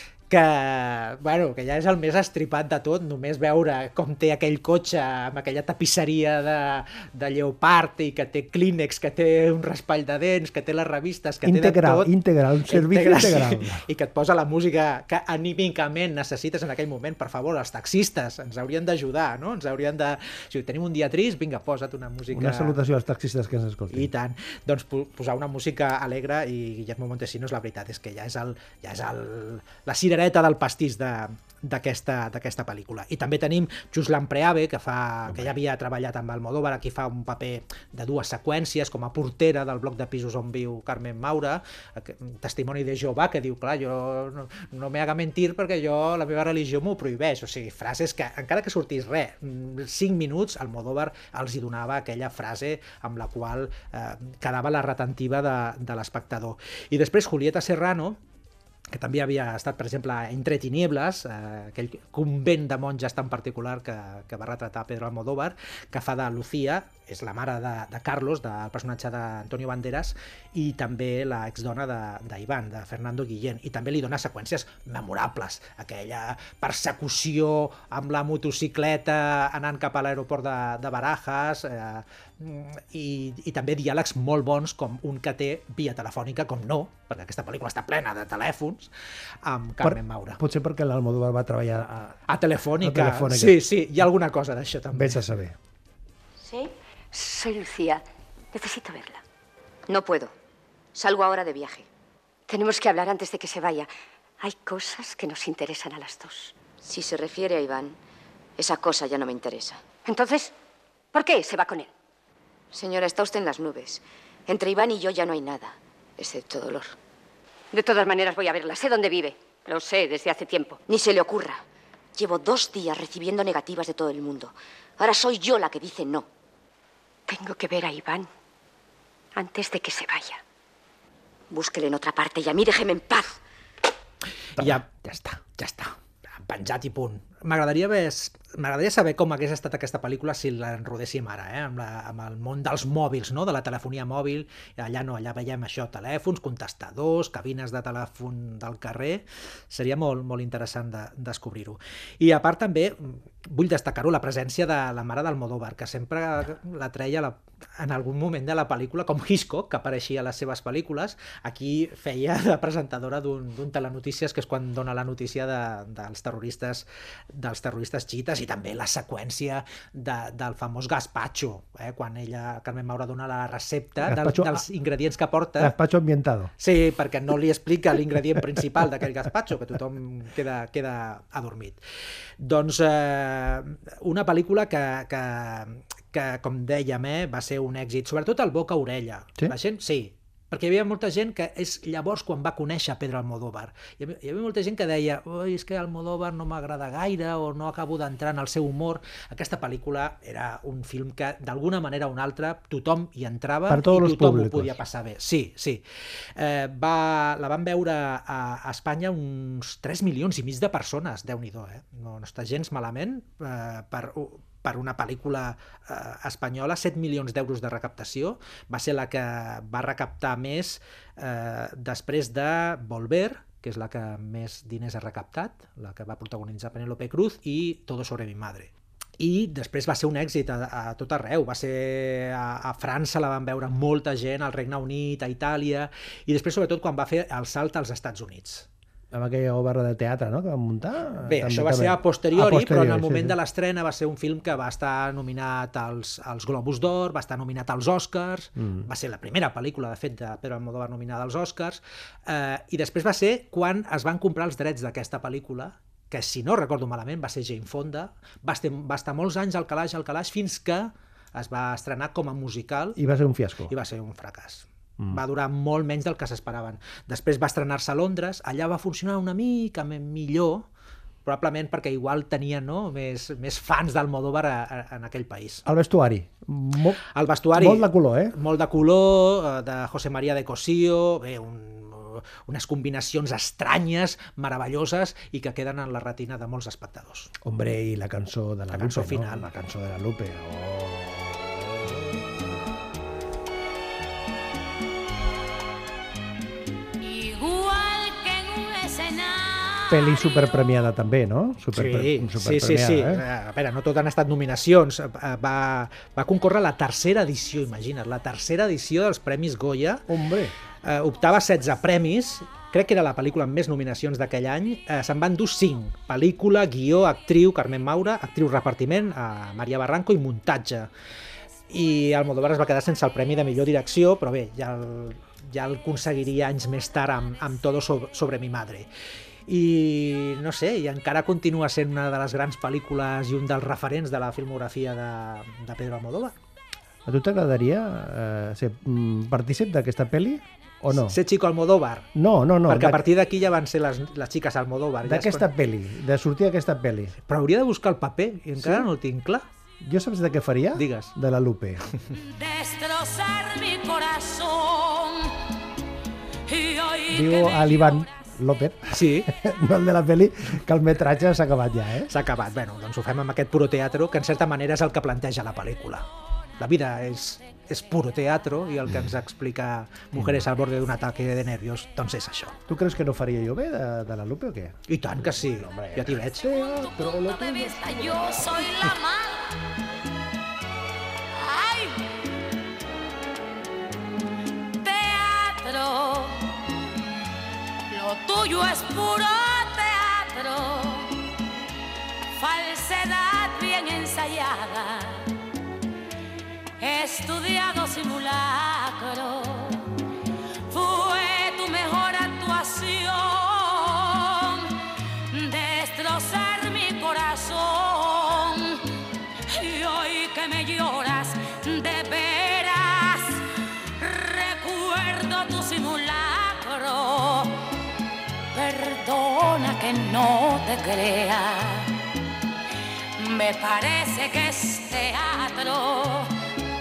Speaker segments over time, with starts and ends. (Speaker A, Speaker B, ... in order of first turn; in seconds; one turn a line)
Speaker A: 0.3-12.1
Speaker B: 11.4-13.9
Speaker A: 12.7-22.8
Speaker B: 22.3-24.1
Speaker A: 23.9-58.2
Speaker A: 58.9-88.9
Speaker A: 89.4-90.4
Speaker B: 89.8-92.2
Speaker A: 92.3-95.3
Speaker B: 92.8-93.6
Speaker B: 94.9-95.6
Speaker C: 96.4-99.2
Speaker D: 99.9-100.3
Speaker D: 101.0-101.9
Speaker C: 102.5-103.9
Speaker C: 104.4-106.5
Speaker D: 106.8-108.0
Speaker D: 108.6-109.8
Speaker C: 110.0-110.5
Speaker C: 111.1-111.9
Speaker D: 112.7-117.0
Speaker C: 117.7-120.8
Speaker D: 120.9-121.6
Speaker D: 122.2-126.3
Speaker C: 127.3-128.3
Speaker C: 129.3-130.4
Speaker D: 131.5-133.4
Speaker A: 134.6-175.8
Speaker B: 134.6-135.4
Speaker B: 174.1-174.6
Speaker B: 175.6-176.5
Speaker A: 176.6-181.8
Speaker A: 182.4-205.8
Speaker B: 203.7-204.8
Speaker A: 206.4-238.7
Speaker B: 239.1-243.4
Speaker A: 241.2-263.0
Speaker B: 248.6-248.9
Speaker B: 263.0-263.7
Speaker A: 263.7-270.7
Speaker A: 271.2-275.6
Speaker B: 275.6-278.4
Speaker A: 277.1-287.3
Speaker B: 287.4-292.5
Speaker A: 288.7-289.5
Speaker E: 297.0-300.3
Speaker B: 299.9-303.2
Speaker A: 301.7-310.1
Speaker B: 310.1-310.6
Speaker A: 310.8-320.9
Speaker A: 321.7-328.9
Speaker A: 329.5-336.4
Speaker B: 337.1-341.2
Speaker A: 341.1-342.1
Speaker B: 342.1-343.1
Speaker A: 342.6-345.5
Speaker B: 345.0-347.2
Speaker A: 347.3-349.5
Speaker B: 348.6-348.9
Speaker B: 349.8-351.9
Speaker A: 350.8-351.1
Speaker E: 352.1-355.4
Speaker E: 356.5-358.2
Speaker B: 357.1-362.1
Speaker A: 358.9-359.3
Speaker A: 362.1-366.1
Speaker A: 366.6-372.6
Speaker B: 370.2-370.4
Speaker B: 372.7-378.9
Speaker A: 374.9-376.6
Speaker E: 376.5-379.6
Speaker E: 381.3-382.1
Speaker E: 384.8-386.5
Speaker E: 387.9-391.2
Speaker E: 392.3-395.3
Speaker E: 396.8-399.9
Speaker E: 400.7-408.9
Speaker E: 409.5-413.5
Speaker E: 414.0-417.6
Speaker E: 418.5-422.0
Speaker E: 423.2-426.3